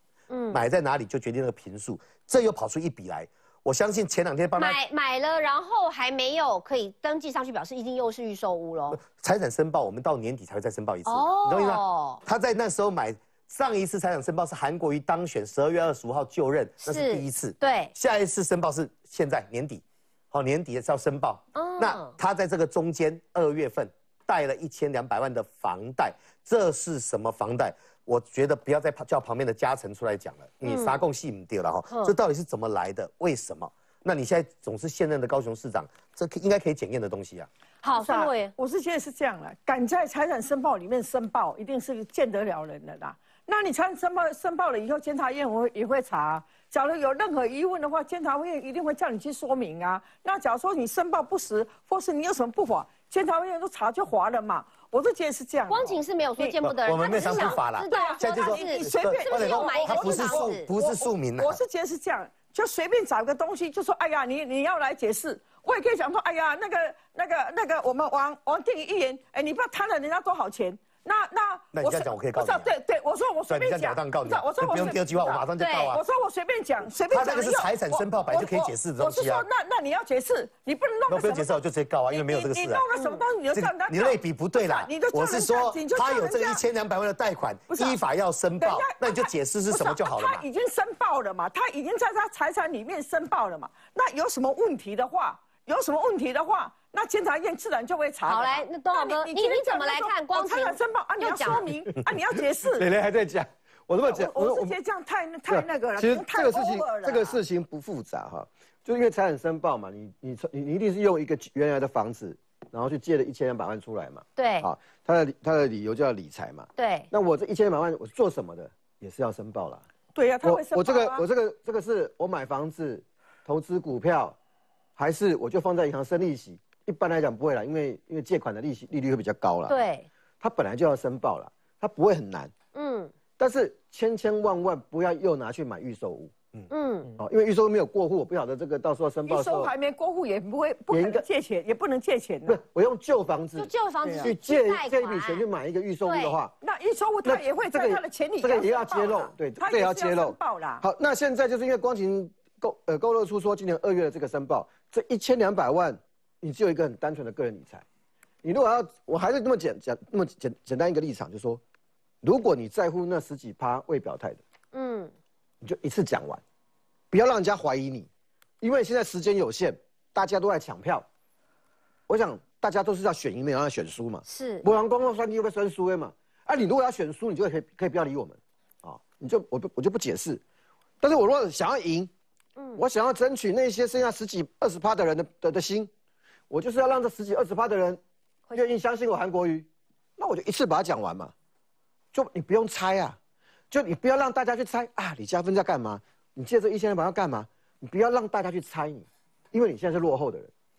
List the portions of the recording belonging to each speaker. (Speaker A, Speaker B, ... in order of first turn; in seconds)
Speaker A: 0.3-0.6, 4.5-9.0, 11.1-12.2, 16.8-17.9, 21.5-22.1, 30.6-31.0, 31.9-32.1, 37.8-38.5, 55.7-60.7, 75.6-76.0, 82.9-83.2, 98.3-101.7, 114.3-114.7, 116.8-117.1, 129.7-130.1, 132.7-133.1, 136.7-137.1, 143.6-145.4, 146.1-146.3, 164.7-165.1, 174.2-174.7, 182.6-182.8, 188.5-188.7
Speaker B: 0.5-4.8, 8.9-37.5, 56.6-61.6, 71.7-72.7, 73.5-76.0, 77.1-79.5, 81.1-82.8, 83.5-90.4
Speaker C: 38.0-56.6, 57.1-86.6, 87.7-88.0, 88.6-102.9, 104.0-107.4, 120.1-121.2, 139.3-142.6, 144.0-144.3, 146.6-150.8
Speaker D: 102.6-104.8, 105.5-119.8, 120.4-124.4, 125.0-129.8, 130.4-132.5, 133.4-139.7, 140.9-141.2, 142.4-146.5, 147.2-157.8, 158.4-161.6, 162.2-164.4, 165.6-166.4, 167.1-168.1, 168.6-171.1, 172.1-180.4, 181.0-182.1, 182.7-185.9, 186.5-188.0, 188.5-191.3, 192.1-193.2, 193.7-200.5